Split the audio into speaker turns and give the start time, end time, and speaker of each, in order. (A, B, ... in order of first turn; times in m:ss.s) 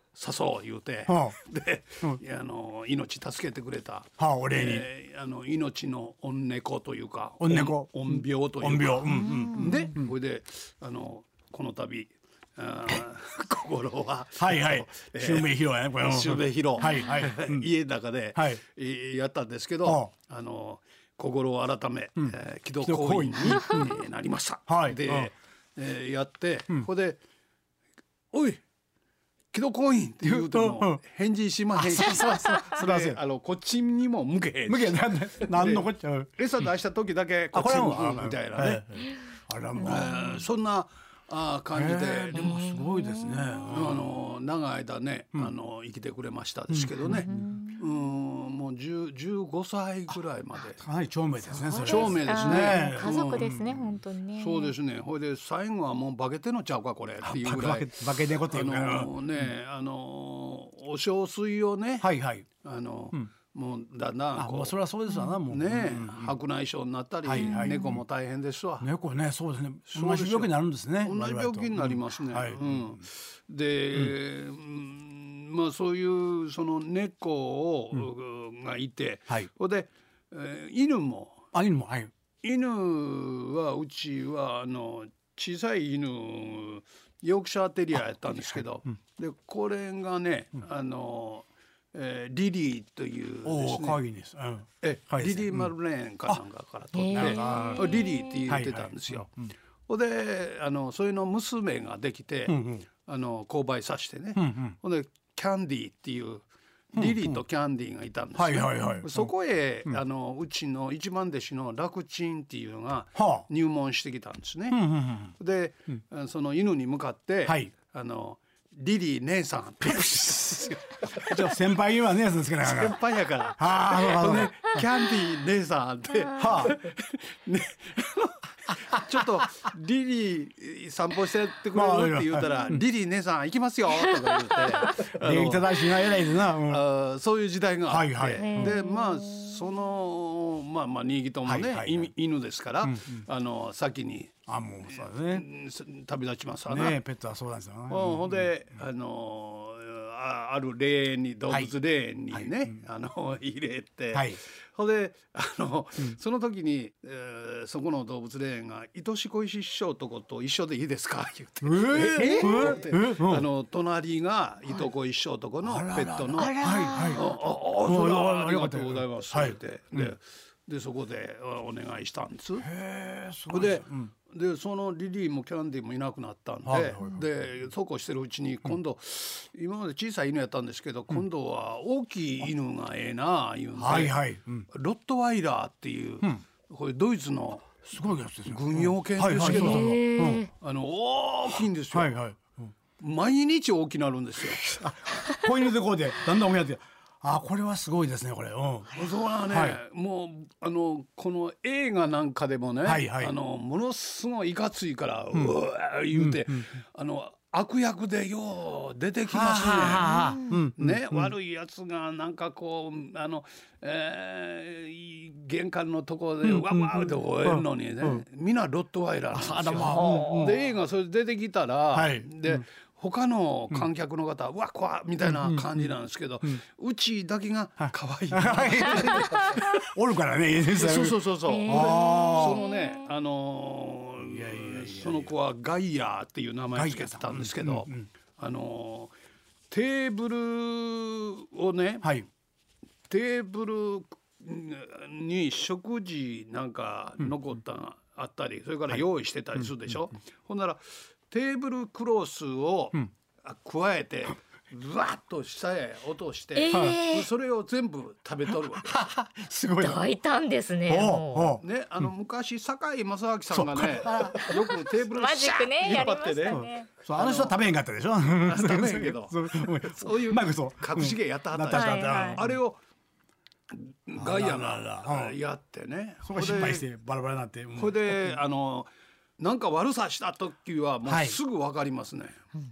0:00.1-0:27.2 A
0:01.1-0:01.4 B
0:04.2-0:04.9 B
0:07.4-0:10.1 B
0:09.0-0:09.9 C
0:14.4-0:17.7 B
0:18.3-0:18.6 B
0:19.8-0:20.1 B
0:22.2-0:24.0 B
0:24.7-0:25.3 B
0:28.3-0:28.6 A
0:29.5-0:39.0 A
0:30.2-0:31.0 B
0:31.8-0:33.2 B
0:34.7-0:36.6 B
0:37.5-0:40.4 B
0:39.8-0:42.6 A
0:39.8-0:40.1 C
0:41.7-0:44.2 B
0:42.3-0:43.6 C
0:43.7-0:50.8 A
0:46.7-0:47.5 B
0:47.0-0:47.9 C
0:50.7-0:54.0 B
0:51.4-0:54.7 C
0:51.8-0:53.5 A
0:54.3-1:04.8 A
0:57.2-0:59.5 B
1:02.0-1:02.4 B
1:04.4-1:06.4 B
1:05.4-1:08.9 A
1:07.2-1:08.0 B
1:07.3-1:08.0 C
1:08.8-1:13.0 B
1:09.9-1:21.5 A
1:21.5-1:22.1 B
1:22.4-1:34.0 A
1:27.9-1:28.6 B
1:33.4-1:35.7 B
1:34.8-1:39.4 A
1:36.9-1:38.5 C
1:37.1-1:39.5 B
1:39.9-2:01.6 A
1:42.5-1:42.9 B
1:44.4-1:44.8 B
1:46.9-1:47.4 B
1:48.3-1:49.3 B
1:53.1-1:53.5 B
1:54.7-1:55.3 B
1:57.4-1:57.7 B
2:01.2-2:04.9 B
2:02.6-2:15.9 A
2:06.3-2:06.8 B
2:11.7-2:12.8 B
2:14.5-2:14.9 C
2:14.9-2:16.8 B
2:16.6-2:24.3 A
2:17.9-2:18.8 B
2:18.4-2:19.6 C
2:21.4-2:22.1 B
2:22.8-2:23.2 B
2:24.5-2:25.4 B
2:24.9-2:27.0 A
2:26.7-2:28.5 B
2:27.9-2:46.6 A
2:32.3-2:32.8 B
2:34.1-2:34.4 B
2:41.6-2:43.5 B
2:42.2-2:42.7 C
2:45.6-2:47.3 B
2:46.4-2:47.4 C
2:47.1-2:52.7 A
2:47.8-2:50.1 B
2:52.6-2:54.1 B
2:53.5-3:07.8 A
2:56.6-2:57.6 B
3:03.8-3:04.7 B
3:07.8-3:10.5 B
3:08.5-3:10.0 A
3:09.4-3:10.5 C
3:10.5-3:12.1 A
3:11.9-3:12.7 B
3:13.0-3:14.6 A
3:14.4-3:19.8 B
3:18.9-3:30.1 A
3:22.8-3:23.3 B
3:26.1-3:26.8 B
3:29.3-3:31.3 B
3:30.1-3:30.6 C
3:30.8-3:49.8 A
3:36.4-3:38.2 B
3:39.3-3:40.6 B
3:39.9-3:40.5 C
3:41.9-3:42.6 B
3:45.2-3:46.6 B
3:47.8-3:52.6 B
3:50.7-3:59.1 A
3:51.4-3:53.1 C
3:54.2-3:55.3 B
3:56.7-3:58.1 B
3:59.7-4:02.1 A
4:02.0-4:02.3 B
4:03.1-4:19.1 A
4:09.6-4:09.9 B
4:16.5-4:17.3 C
4:16.7-4:17.0 B
4:18.7-4:20.0 B
4:19.8-4:21.6 C
4:20.9-4:22.1 B
4:21.6-4:27.6 A
4:23.5-4:24.8 B
4:25.1-4:26.9 C
4:25.9-4:32.6 B
4:28.4-4:32.8 A
4:31.7-4:32.4 C
4:33.7-4:36.9 A
4:34.2-4:35.4 B
4:36.2-4:38.4 B
4:37.7-4:42.4 A
4:41.0-4:41.4 B